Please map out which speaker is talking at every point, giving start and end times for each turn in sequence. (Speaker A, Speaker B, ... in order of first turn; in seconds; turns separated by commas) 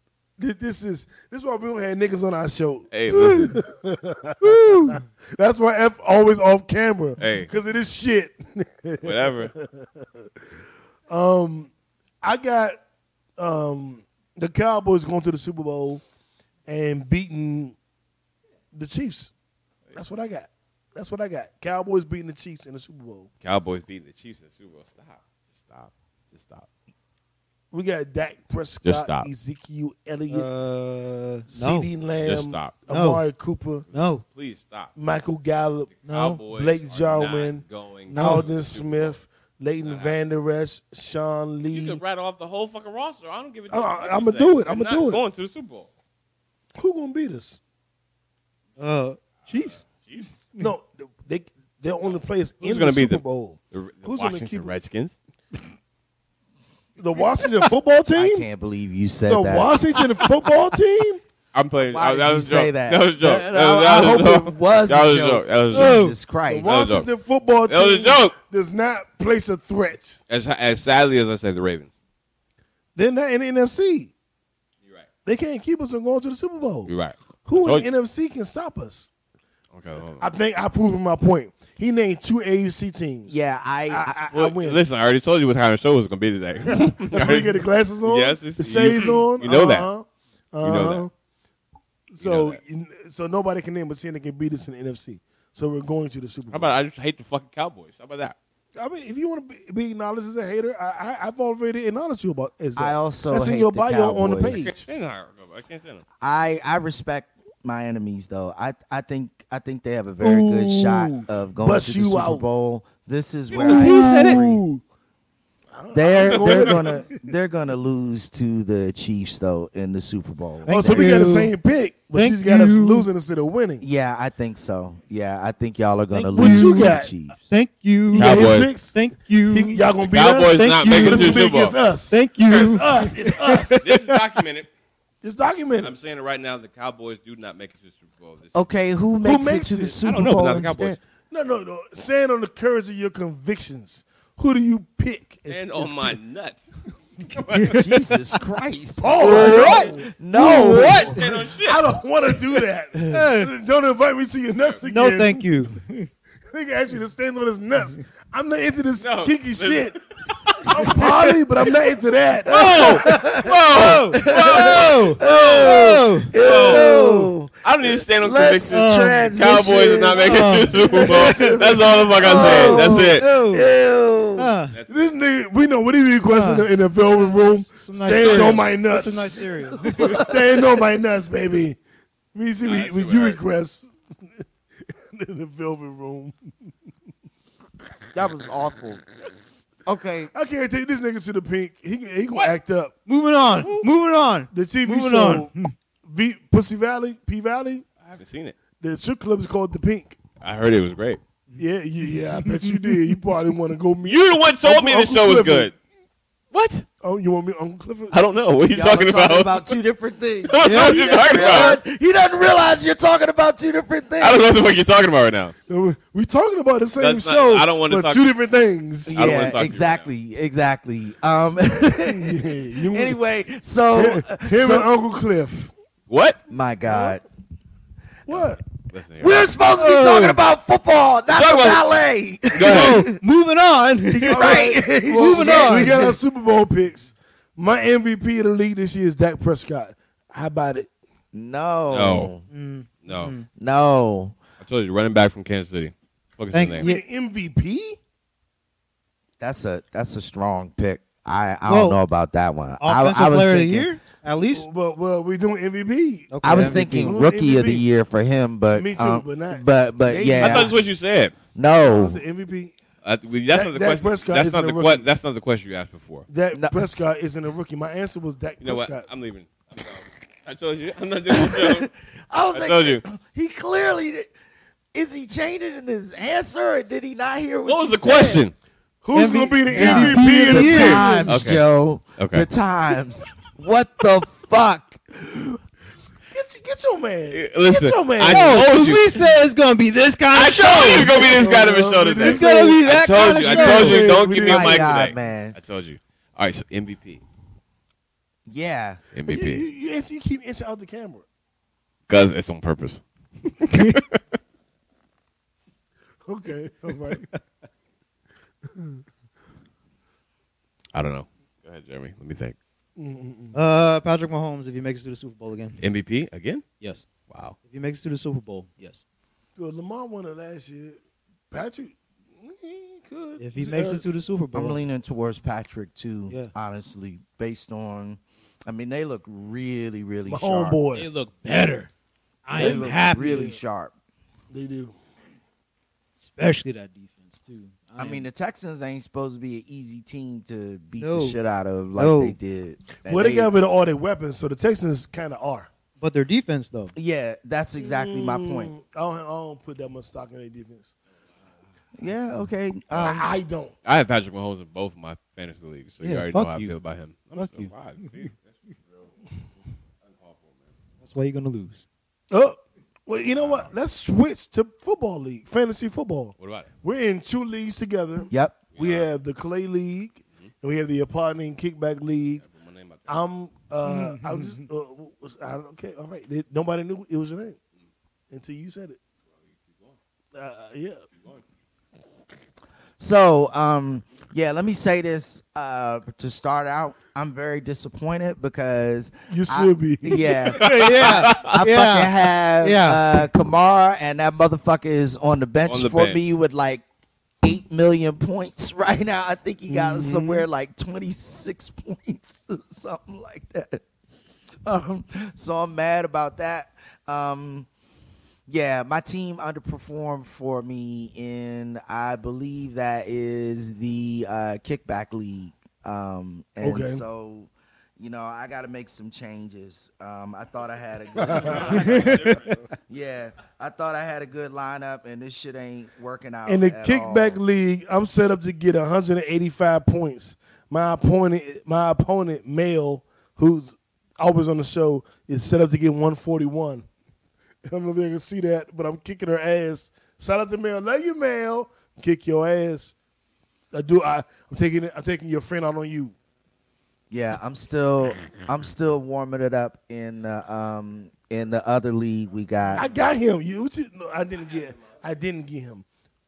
Speaker A: 0.4-10.0, Speaker B: 2.9-3.5, Speaker C: 4.4-5.0, Speaker B: 7.2-7.5, Speaker B: 9.0-9.5, Speaker A: 11.1-11.7, Speaker A: 12.2-12.8, Speaker A: 13.4-16.0, Speaker A: 16.7-17.8, Speaker A: 18.7-19.3, Speaker A: 19.9-23.3, Speaker B: 23.4-26.7, Speaker A: 27.7-30.5, Speaker B: 28.8-29.3, Speaker C: 30.3-31.9, Speaker A: 31.5-33.8, Speaker B: 32.2-32.8, Speaker C: 32.9-33.2, Speaker C: 33.9-34.2, Speaker B: 33.9-34.9, Speaker A: 34.9-35.9, Speaker B: 36.0-39.2, Speaker C: 36.1-36.4, Speaker A: 36.5-37.6, Speaker C: 38.1-38.5, Speaker A: 38.1-42.0, Speaker B: 39.8-40.1, Speaker B: 41.7-45.9, Speaker A: 43.7-45.2, Speaker A: 46.8-47.6, Speaker C: 48.8-49.9, Speaker B: 49.8-50.3, Speaker A: 50.6-54.7, Speaker B: 52.6-55.1, Speaker A: 57.0-58.5, Speaker D: 58.1-59.8, Speaker A: 59.2-61.2, Speaker B: 61.5-66.1, Speaker D: 61.9-66.8, Speaker C: 65.7-66.1, Speaker A: 66.5-70.2, Speaker B: 66.6-67.1, Speaker B: 67.7-68.3, Speaker B: 70.3-71.9, Speaker A: 73.0-74.1, Speaker A: 75.2-76.9, Speaker B: 76.9-77.9, Speaker A: 77.4-79.1, Speaker B: 79.7-80.3, Speaker A: 80.2-84.8, Speaker D: 83.3-84.1, Speaker B: 84.3-89.9, Speaker A: 86.7-91.1, Speaker B: 90.6-91.0, Speaker A: 92.1-96.7, Speaker B: 92.2-92.6, Speaker B: 96.5-98.3, Speaker A: 98.8-104.8, Speaker D: 102.8-104.7, Speaker B: 104.5-106.0, Speaker D: 106.2-114.6, Speaker A: 110.2-112.5, Speaker A: 113.5-114.8, Speaker B: 113.6-114.4, Speaker C: 113.8-114.4, Speaker A: 115.7-117.0, Speaker D: 115.9-121.2, Speaker B: 116.2-116.9, Speaker C: 120.7-121.5, Speaker A: 120.7-123.8, Speaker C: 122.1-123.1, Speaker D: 123.8-127.5, Speaker C: 126.1-129.9, Speaker A: 126.3-127.1, Speaker A: 128.1-129.0, Speaker B: 128.1-128.7, Speaker A: 129.5-133.9, Speaker B: 130.0-131.8, Speaker C: 130.5-131.5, Speaker C: 132.1-134.2, Speaker B: 132.5-132.8, Speaker B: 133.8-134.7, Speaker A: 135.2-135.9, Speaker B: 135.8-138.6, Speaker D: 138.5-141.0, Speaker A: 139.2-140.0, Speaker B: 140.0-141.0, Speaker A: 141.3-146.2, Speaker B: 145.5-146.7, Speaker B: 147.2-147.9, Speaker D: 147.7-151.2, Speaker A: 149.0-155.4, Speaker C: 149.2-151.3, Speaker B: 150.6-151.8, Speaker C: 153.1-153.5, Speaker C: 154.8-156.1, Speaker A: 156.5-160.0, Speaker B: 159.0-160.8, Speaker A: 160.6-162.8, Speaker C: 160.7-161.3, Speaker B: 162.5-167.0, Speaker C: 162.5-167.3, Speaker D: 162.8-174.5, Speaker B: 167.6-173.2, Speaker C: 168.7-169.4, Speaker C: 170.1-173.7, Speaker C: 174.4-174.7, Speaker B: 174.7-175.1, Speaker A: 174.9-181.8, Speaker C: 176.2-180.4, Speaker A: 182.3-183.9, Speaker B: 182.6-183.4, Speaker A: 185.1-186.3, Speaker D: 188.1-189.0, Speaker D: 189.8-190.3, Speaker A: 190.3-192.9, Speaker C: 193.1-195.7, Speaker B: 193.6-193.9, Speaker A: 194.5-195.5, Speaker A: 196.1-197.8, Speaker B: 198.1-198.5, Speaker A: 198.8-200.2, Speaker B: 200.4-201.2, Speaker A: 201.6-205.7, Speaker C: 202.4-203.1, Speaker B: 204.0-205.7, Speaker B: 206.5-206.8, Speaker A: 207.0-208.2, Speaker B: 208.1-209.7, Speaker D: 208.7-214.4, Speaker B: 210.5-211.8, Speaker C: 210.6-211.8, Speaker B: 214.2-215.5, Speaker A: 215.7-219.1, Speaker B: 217.0-218.3, Speaker D: 219.1-224.9, Speaker B: 219.1-220.1, Speaker A: 222.0-223.2, Speaker A: 223.9-225.7, Speaker B: 226.1-226.4, Speaker D: 226.5-227.2, Speaker A: 228.2-228.6, Speaker B: 228.3-229.5, Speaker D: 229.2-233.2, Speaker C: 229.7-230.4, Speaker B: 231.3-231.8, Speaker B: 232.5-233.1, Speaker C: 232.6-236.2, Speaker D: 234.1-236.0, Speaker A: 234.2-240.9, Speaker D: 241.3-242.4, Speaker B: 241.9-242.3, Speaker C: 242.5-243.5, Speaker B: 243.0-243.3, Speaker D: 243.6-244.4, Speaker B: 244.6-246.9, Speaker C: 246.5-247.0, Speaker A: 246.8-248.0, Speaker D: 249.4-253.9, Speaker C: 251.7-252.0, Speaker C: 252.8-254.7, Speaker A: 254.5-257.9, Speaker C: 256.3-257.2, Speaker D: 256.4-260.7, Speaker A: 258.7-260.7, Speaker B: 260.4-261.3, Speaker D: 261.5-262.2, Speaker A: 261.9-262.7, Speaker B: 263.0-266.3, Speaker A: 263.5-265.1, Speaker A: 266.3-269.1, Speaker D: 266.5-266.8, Speaker B: 268.6-271.9, Speaker D: 271.3-274.3, Speaker B: 272.5-273.0, Speaker D: 274.9-278.4, Speaker B: 277.6-278.5, Speaker A: 279.0-281.1, Speaker C: 279.1-281.4, Speaker D: 279.7-285.6, Speaker B: 281.3-281.6, Speaker B: 282.2-282.4, Speaker A: 286.3-288.6, Speaker B: 287.3-289.2, Speaker C: 288.2-291.4, Speaker B: 290.3-297.2, Speaker A: 291.0-295.0, Speaker C: 292.2-294.1, Speaker D: 294.2-295.6, Speaker D: 298.5-299.0, Speaker B: 299.1-299.6, Speaker A: 299.3-301.2, Speaker B: 302.1-304.2, Speaker A: 306.3-307.2, Speaker C: 307.1-307.4, Speaker A: 308.7-309.0, Speaker B: 310.9-312.6, Speaker A: 313.0-313.6, Speaker C: 313.5-315.8, Speaker B: 315.8-316.6, Speaker C: 316.8-317.1, Speaker B: 317.3-317.6, Speaker C: 317.6-319.0, Speaker A: 319.6-321.0, Speaker A: 321.5-324.1, Speaker C: 323.4-324.8, Speaker D: 324.5-330.8, Speaker A: 330.2-331.1, Speaker C: 330.9-331.9, Speaker C: 332.4-333.6, Speaker D: 332.5-333.9, Speaker A: 332.5-333.5, Speaker A: 334.5-334.9, Speaker C: 336.2-338.3, Speaker D: 338.0-343.5, Speaker C: 341.0-341.4, Speaker C: 341.9-342.4, Speaker A: 343.0-345.7, Speaker C: 346.0-346.9, Speaker D: 346.9-348.7, Speaker A: 347.8-350.9, Speaker D: 352.0-353.3, Speaker A: 352.9-353.7, Speaker B: 353.8-359.1, Speaker C: 356.0-356.8, Speaker C: 357.3-358.3, Speaker B: 360.0-360.6, Speaker C: 361.0-361.9, Speaker A: 362.3-372.4, Speaker B: 363.4-363.7, Speaker B: 366.4-366.7, Speaker D: 368.3-368.6, Speaker B: 368.7-369.1, Speaker B: 372.4-373.2, Speaker A: 373.1-377.6, Speaker C: 373.8-374.6, Speaker A: 378.3-379.0, Speaker A: 380.3-381.0, Speaker D: 383.0-396.8, Speaker A: 389.3-390.4, Speaker B: 390.5-391.6, Speaker C: 390.7-393.0, Speaker B: 395.6-396.2, Speaker D: 397.4-403.8, Speaker A: 399.7-400.4, Speaker D: 404.6-407.7, Speaker D: 408.5-427.4, Speaker A: 416.6-417.0, Speaker A: 421.2-421.7, Speaker B: 421.4-422.6, Speaker C: 421.8-422.2, Speaker A: 426.4-436.9, Speaker A: 437.6-442.9, Speaker A: 443.7-446.1, Speaker D: 447.1-452.9, Speaker A: 452.7-455.8